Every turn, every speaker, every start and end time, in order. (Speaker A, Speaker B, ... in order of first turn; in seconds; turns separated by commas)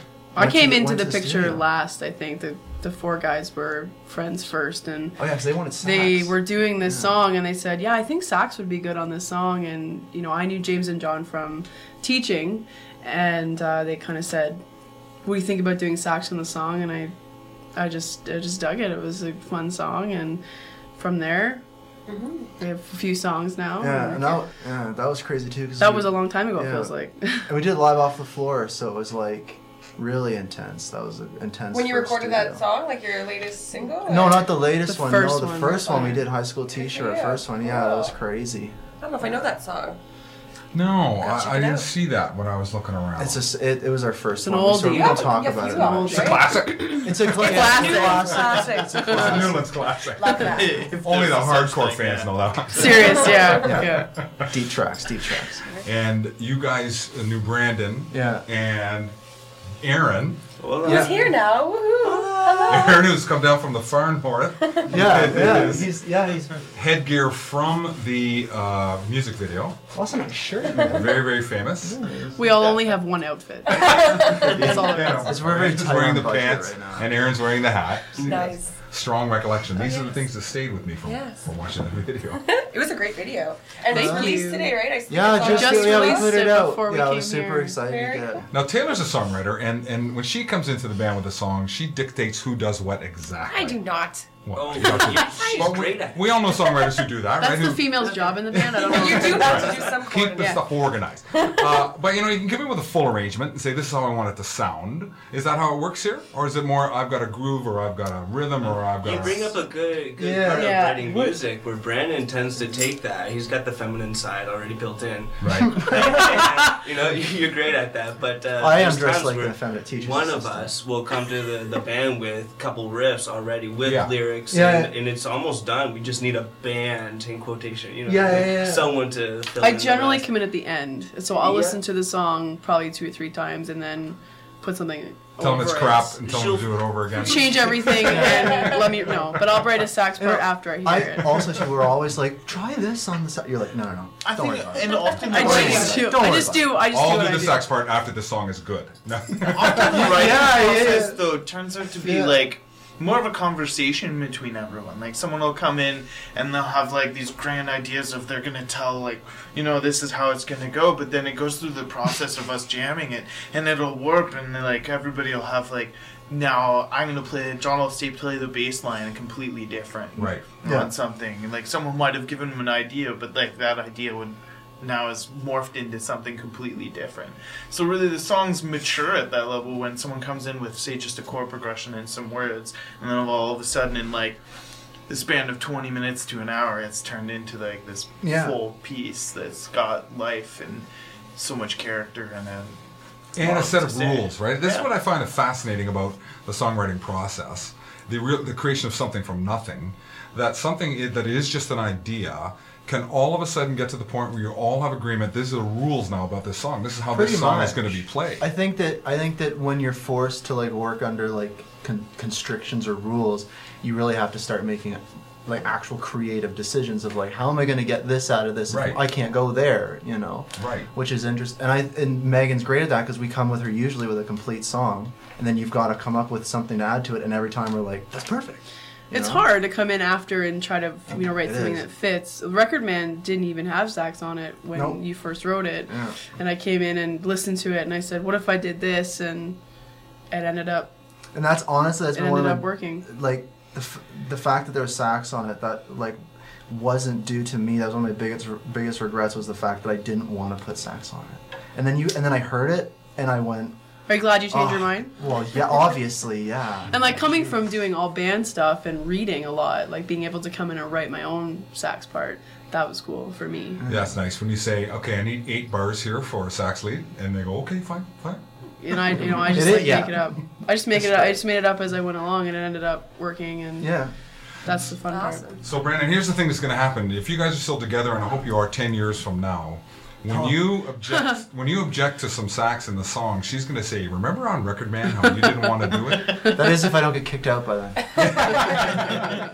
Speaker A: 0.3-5.2, Speaker B: 0.4-1.6, Speaker B: 5.2-7.2, Speaker A: 5.8-14.6, Speaker A: 15.2-17.1, Speaker A: 17.8-20.4, Speaker A: 21.0-21.6, Speaker C: 22.1-22.5, Speaker A: 22.6-24.4, Speaker B: 23.8-26.9, Speaker A: 25.8-27.5, Speaker B: 27.5-32.6, Speaker C: 31.7-34.6, Speaker B: 34.0-38.8, Speaker A: 34.8-36.2, Speaker C: 35.8-38.2, Speaker C: 39.0-40.0, Speaker D: 40.7-43.4, Speaker C: 41.2-41.9, Speaker B: 43.2-46.4, Speaker A: 44.4-46.7, Speaker C: 44.9-46.5, Speaker D: 46.1-48.1, Speaker B: 47.0-49.7, Speaker C: 47.4-49.6, Speaker E: 48.2-48.6, Speaker D: 49.0-53.4, Speaker C: 50.1-51.0, Speaker E: 50.5-53.5, Speaker A: 52.7-54.1, Speaker B: 53.5-55.7, Speaker D: 55.8-59.1, Speaker B: 58.1-58.5, Speaker D: 59.8-60.4, Speaker F: 60.6-61.4, Speaker C: 60.8-63.0, Speaker B: 60.8-61.3, Speaker B: 62.0-63.0, Speaker D: 62.7-65.9, Speaker C: 64.7-65.0, Speaker B: 64.9-66.6, Speaker D: 66.7-69.8, Speaker B: 69.9-71.3, Speaker D: 70.7-72.0, Speaker B: 71.8-72.5, Speaker A: 72.3-75.3, Speaker C: 73.7-74.5, Speaker B: 74.4-77.1, Speaker D: 74.4-82.5, Speaker C: 78.2-78.7, Speaker C: 79.8-80.2, Speaker C: 81.0-81.4, Speaker C: 82.5-86.4, Speaker A: 83.9-84.8, Speaker B: 83.9-84.5, Speaker B: 85.1-88.5, Speaker A: 85.3-87.8, Speaker C: 87.8-88.4, Speaker D: 88.5-93.9, Speaker C: 93.5-95.8, Speaker D: 94.4-109.5, Speaker F: 94.5-96.4, Speaker A: 97.4-100.6, Speaker C: 98.1-100.8, Speaker C: 101.3-101.8, Speaker F: 108.8-130.3, Speaker B: 110.2-110.8, Speaker A: 110.5-111.3, Speaker D: 115.4-115.8, Speaker B: 115.6-116.5, Speaker B: 118.6-120.8, Speaker D: 123.8-124.1, Speaker B: 124.5-124.9, Speaker B: 128.1-128.9, Speaker A: 129.6-136.2, Speaker F: 131.3-131.8, Speaker D: 135.4-138.1, Speaker F: 135.8-138.3, Speaker A: 137.2-141.7, Speaker B: 138.0-138.8, Speaker B: 140.2-146.7, Speaker E: 144.2-146.2, Speaker A: 145.3-147.7, Speaker D: 146.9-150.1, Speaker E: 149.5-184.4, Speaker B: 149.8-151.3, Speaker B: 152.0-152.4, Speaker D: 170.2-170.5, Speaker B: 170.2-170.9, Speaker E: 185.1-192.8, Speaker B: 188.2-188.6, Speaker D: 193.4-208.4, Speaker E: 193.4-194.9, Speaker B: 207.1-229.5, Speaker D: 218.7-219.0, Speaker D: 220.6-220.9, Speaker A: 229.1-239.6, Speaker B: 231.1-231.9, Speaker B: 234.7-235.1, Speaker B: 235.9-236.2, Speaker A: 240.3-240.9, Speaker B: 241.3-246.2, Speaker A: 242.1-243.1, Speaker B: 246.7-253.8, Speaker A: 254.1-255.1, Speaker B: 254.5-257.6, Speaker A: 256.9-263.8, Speaker B: 263.8-264.1, Speaker D: 263.9-268.4, Speaker A: 268.8-273.9, Speaker B: 269.5-271.4, Speaker B: 273.8-274.1, Speaker A: 274.6-275.5, Speaker C: 275.1-275.6, Speaker D: 275.6-286.5, Speaker B: 280.3-280.7, Speaker A: 281.2-281.4, Speaker B: 286.4-288.6, Speaker D: 288.2-289.4